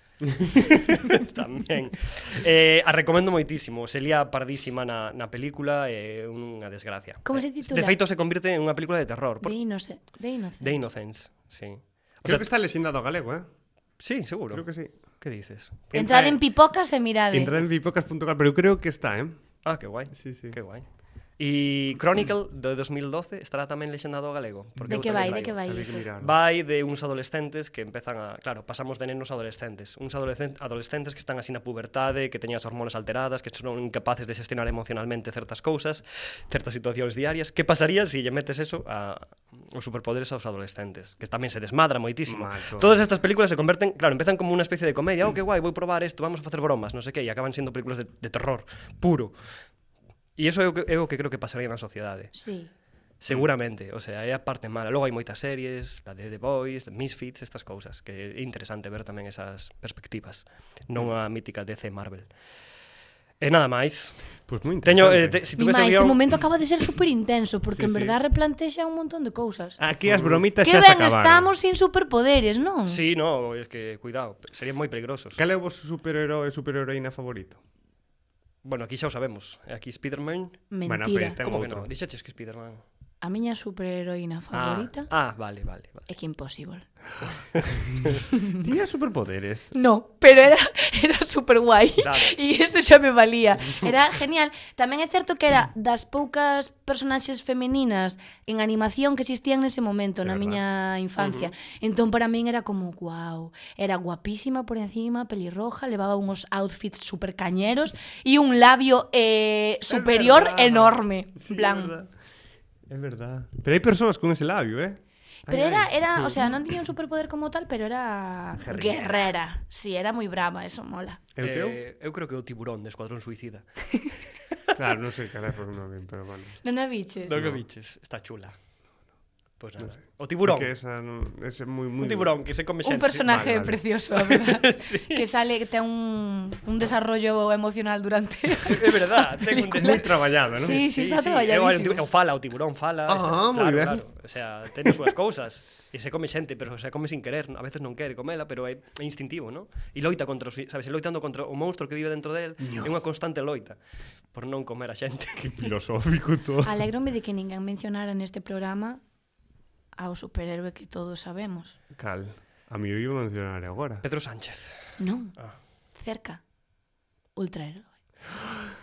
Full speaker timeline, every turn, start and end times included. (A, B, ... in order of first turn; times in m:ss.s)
0:00.3-0:01.0 A
0:00.9-0:09.6 B
0:07.2-0:08.0 C
0:09.4-0:10.8 C
0:10.6-0:12.5 B
0:12.2-0:13.5 A
0:14.0-0:14.6 B
0:14.5-0:14.9 A
0:15.2-0:16.0 B
0:15.9-0:16.4 A
0:15.9-0:17.6 C
0:17.3-0:19.4 A
0:19.6-0:20.8 B
0:20.2-0:20.6 A
0:21.4-0:25.6 B
0:24.9-0:26.1 C
0:24.9-0:26.4 A
0:26.2-0:49.3 B
0:42.3-0:43.0 A
0:50.4-0:52.3 B
0:52.3-0:52.7 C
0:53.2-1:02.3 B
1:03.4-1:04.2 B
1:04.5-1:05.4 A
1:04.8-1:06.2 B
1:05.6-1:09.8 C
1:07.7-1:08.2 A
1:09.8-1:11.5 A
1:10.1-1:10.4 B
1:10.6-1:13.0 C
1:12.9-1:15.4 B
1:15.4-1:17.6 A
1:18.6-1:20.6 B
1:20.7-1:21.4 C
1:20.9-1:21.9 A
1:21.4-1:22.8 B
1:23.2-1:25.1 C
1:24.5-1:26.0 B
1:26.1-1:26.9 C
1:28.5-1:29.7 A
1:29.7-1:51.9 C
1:32.0-1:32.4 B
1:40.2-1:40.6 A
1:41.2-1:41.5 B
1:49.9-1:52.1 A
1:52.9-1:56.4 A
1:55.5-2:01.2 C
1:58.6-1:59.3 A
2:01.4-2:01.8 A
2:01.4-2:03.7 B
2:04.8-2:06.6 A
2:06.6-2:07.3 C
2:07.3-2:08.6 B
2:07.3-2:07.6 A
2:09.6-2:10.7 B
2:10.4-2:12.4 A
2:12.0-2:13.5 B
2:12.8-2:22.0 C
2:13.3-2:13.8 A
2:14.1-2:15.2 B
2:18.6-2:33.8 B
2:19.7-2:20.8 A
2:23.1-2:24.0 A
2:32.6-2:32.9 A
2:34.3-2:35.7 B
2:35.4-2:36.7 A
2:36.6-2:39.0 C
2:40.0-2:41.8 C
2:41.9-2:44.0 A
2:44.0-2:45.6 B
2:45.0-2:45.3 C
2:46.0-2:46.4 C
2:47.4-2:47.9 C